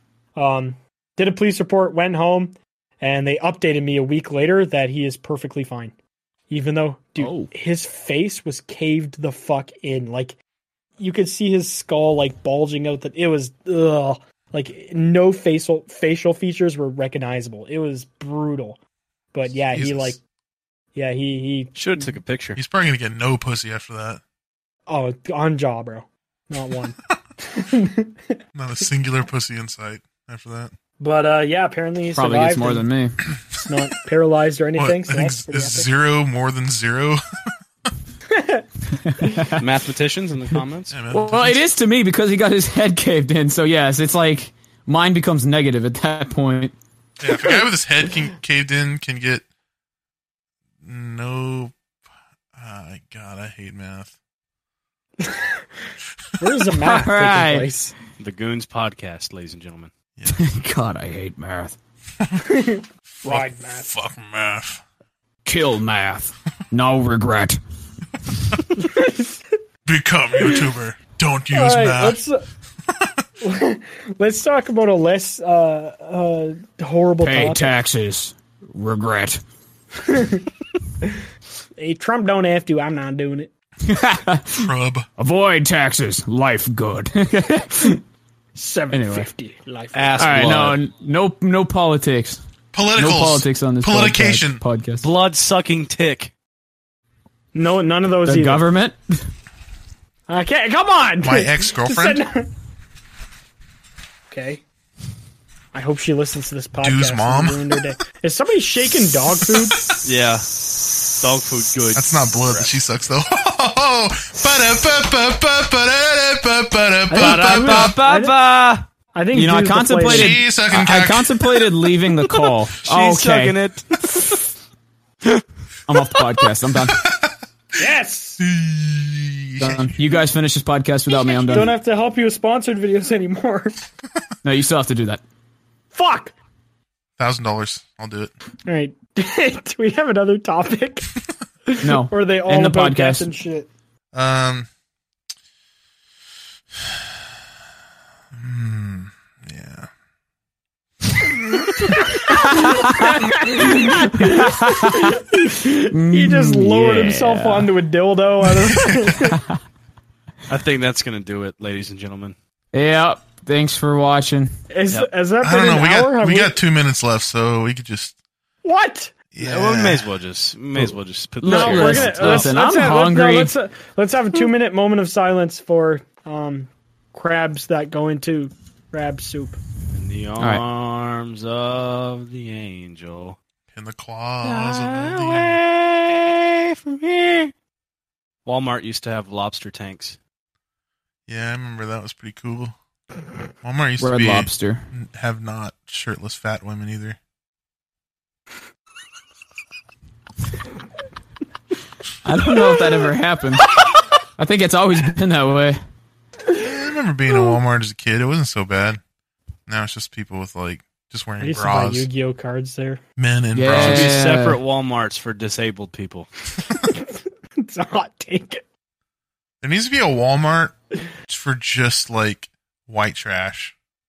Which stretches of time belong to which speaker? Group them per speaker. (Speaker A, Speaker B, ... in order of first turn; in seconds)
Speaker A: 0.4-5.9, 6.5-10.4, 11.0-18.8, 19.3-20.2, 20.9-22.1, 24.9-28.4, 31.0-32.9, 33.6-35.9, 38.3-38.6, 47.3-47.6, 55.2-55.6, 56.4-57.9, 62.4-63.9, 68.9-69.4, 70.4-70.7, 71.5-72.4, 73.4-77.8, 80.0-80.4, 81.8-83.5, 88.5-90.5, 97.5-98.7, 100.3-102.5, 104.3-104.6, 105.7-109.9, 117.1-118.4, 119.1-120.4, 127.8-128.4, 131.5-133.8, 135.9-136.3, 138.7-141.1, 141.7-143.7, 153.0-159.4, 164.7-166.6, 168.6-169.2, 171.4-179.6, 211.4-213.0, 216.9-218.6
Speaker B: 7.2-7.5, 32.1-33.2, 39.0-39.6, 41.1-46.7, 56.8-57.7, 60.3-61.8, 65.4-67.6, 77.2-79.4, 83.8-88.0, 88.9-89.3, 90.2-92.4, 93.0-95.1, 98.3-99.2, 119.3-123.6, 125.9-127.0, 129.6-131.7, 134.4-135.2, 141.8-143.3, 152.5-155.2, 155.9-157.7, 162.7-164.5, 171.4-173.5, 194.0-194.9, 202.2-203.7, 204.4-205.8, 213.5-214.6
Speaker C: 19.7-20.1, 22.6-24.2, 28.5-30.7, 34.7-37.2, 40.9-41.6, 47.2-49.4, 50.8-51.7, 52.5-54.1, 60.2-60.4, 63.2-64.8, 69.8-72.2, 84.6-85.0, 92.7-94.6, 101.2-102.2, 106.8-107.7, 109.4-110.0, 111.9-118.0, 120.0-121.4, 127.0-127.3, 128.4-129.9, 137.2-138.3, 144.1-144.7, 148.3-149.9, 158.6-159.3, 165.4-168.2, 169.3-170.1, 183.7-185.6, 191.3-192.7, 193.6-197.2, 206.5-209.0, 209.7-212.1, 213.2-214.2, 219.6-223.7
Speaker D: 21.8-22.6, 39.6-40.9, 58.2-59.9, 89.9-90.8, 95.0-96.3, 110.0-112.7, 117.1-118.9, 122.3-124.4, 160.5-162.4, 169.4-172.6, 179.9-183.4, 184.4-187.5, 188.4-190.2, 213.7-216.3